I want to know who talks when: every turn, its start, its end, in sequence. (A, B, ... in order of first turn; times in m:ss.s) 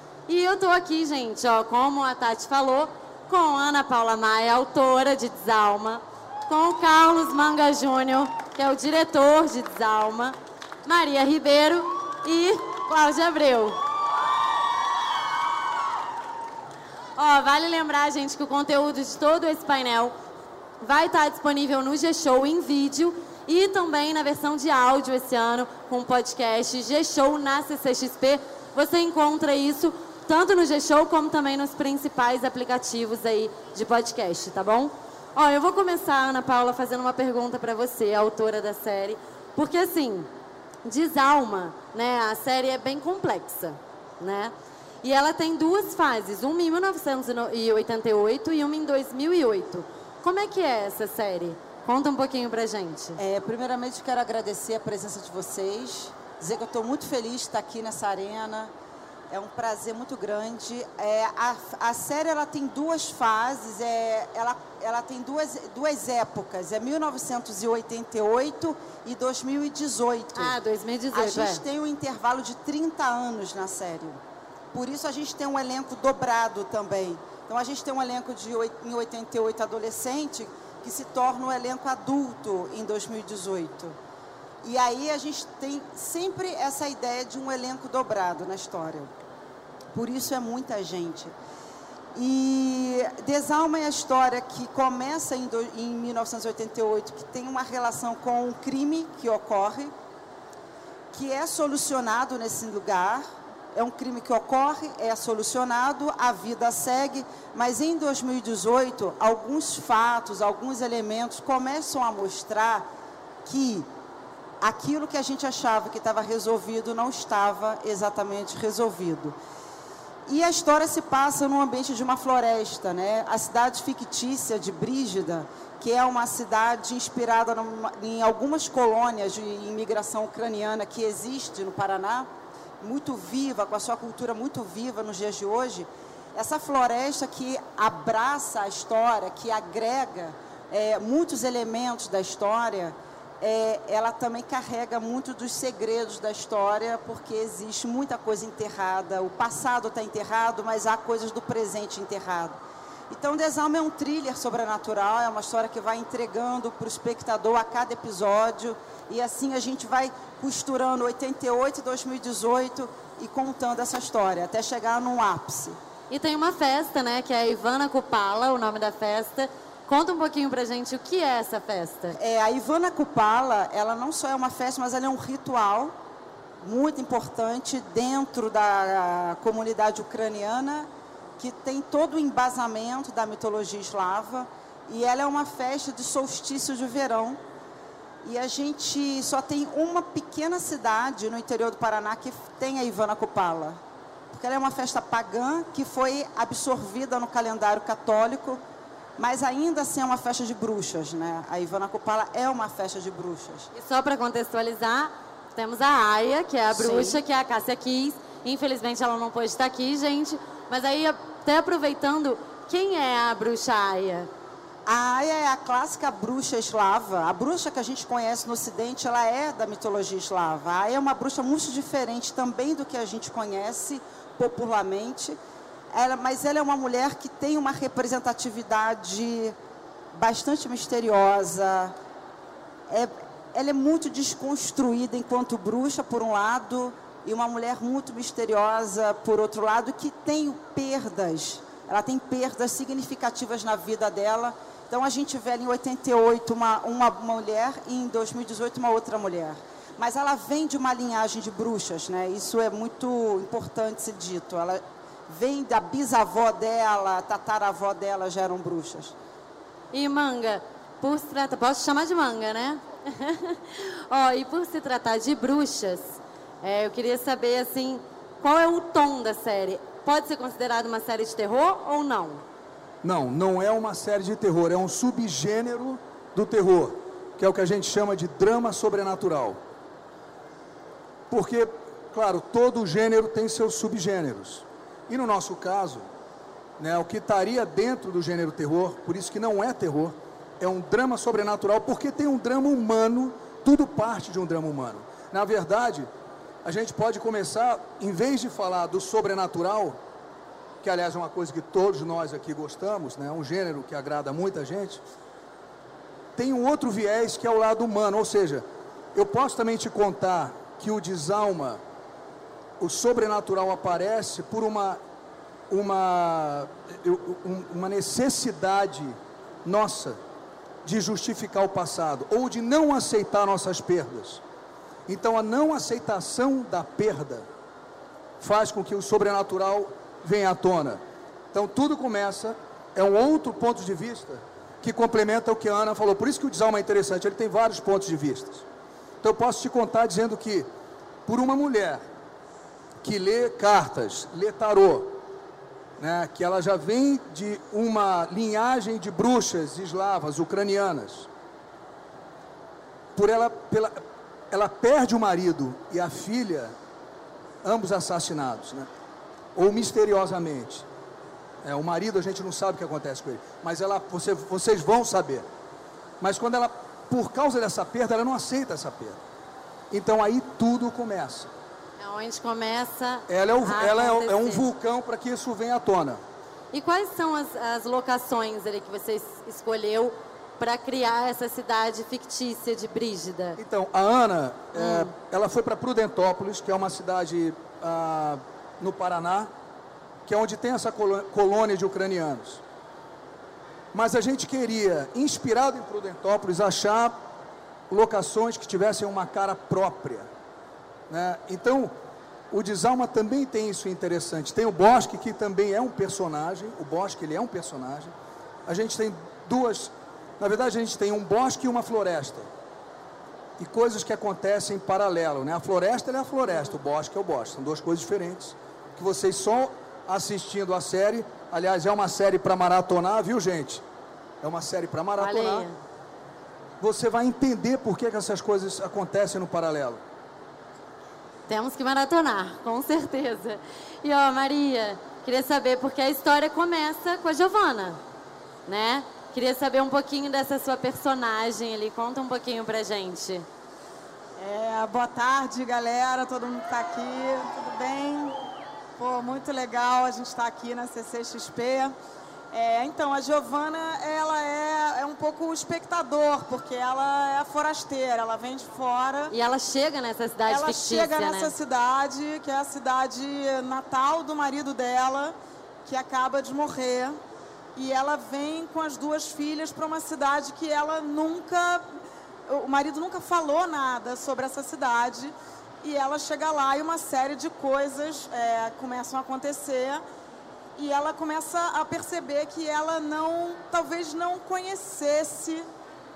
0:00.3-0:13.8 A
0:17.2-0:20.2 A
0:20.8-0:40.3 A
0:40.8-0:53.2 A
0:53.2-0:58.7 B
0:59.3-1:10.6 B
1:10.3-1:11.6 A
1:11.1-1:14.2 B
1:14.7-1:24.0 B
1:24.6-1:29.1 B
1:29.9-1:31.3 B
1:32.1-1:39.9 B
1:41.1-1:52.9 B
1:53.4-1:53.9 B
1:54.6-1:59.4 B
2:00.3-2:12.3 B
2:12.8-2:32.6 B
2:33.1-2:45.8 B
2:46.1-2:52.2 A
2:52.1-2:55.9 B
2:56.6-3:00.9 B
3:01.4-3:07.4 B
3:08.2-3:13.8 B
3:14.3-3:18.6 B
3:19.2-3:23.7 B
3:23.7-3:34.3 A
3:26.7-3:27.2 B
3:34.8-3:45.4 B
3:45.9-3:49.6 B
3:50.1-3:51.9 B
3:52.9-4:19.1 B
4:19.9-4:32.4 A
4:33.0-4:39.6 C
4:41.3-4:46.1 C
4:46.8-4:56.1 C
4:56.6-5:00.0 C
5:00.8-5:05.0 C
5:06.3-5:11.8 C
5:12.8-5:15.0 C
5:15.7-5:20.2 C
5:20.8-5:24.4 C
5:25.1-5:27.4 C
5:28.4-5:31.0 C
5:31.5-5:38.6 C
5:39.2-5:40.7 C
5:41.2-5:42.0 C
5:43.0-5:45.2 C
5:46.0-5:51.3 C
5:53.1-5:54.0 C
5:54.5-5:56.7 C
5:57.6-5:58.9 C
5:59.5-6:00.9 C
6:01.6-6:05.4 C
6:06.2-6:09.2 C
6:09.9-6:11.5 C
6:12.0-6:14.7 A
6:13.3-6:16.2 C
6:16.7-6:23.6 A
6:23.6-6:29.5 C
6:24.7-6:25.1 A
6:30.2-6:32.6 C
6:33.9-6:37.2 C
6:37.9-6:40.3 C
6:41.1-6:41.9 C
6:42.5-6:48.1 C
6:48.7-6:52.5 C
6:53.6-7:03.8 C
7:04.4-7:05.7 C
7:05.2-7:05.8 A
7:06.8-7:10.0 C
7:11.5-7:18.0 A
7:18.7-7:23.4 A
7:24.4-7:28.3 D
7:29.0-7:31.9 D
7:32.5-7:39.3 D
7:39.3-7:41.5 A
7:40.5-7:47.2 D
7:47.7-7:51.8 D
7:52.5-8:00.0 D
8:00.8-8:05.6 D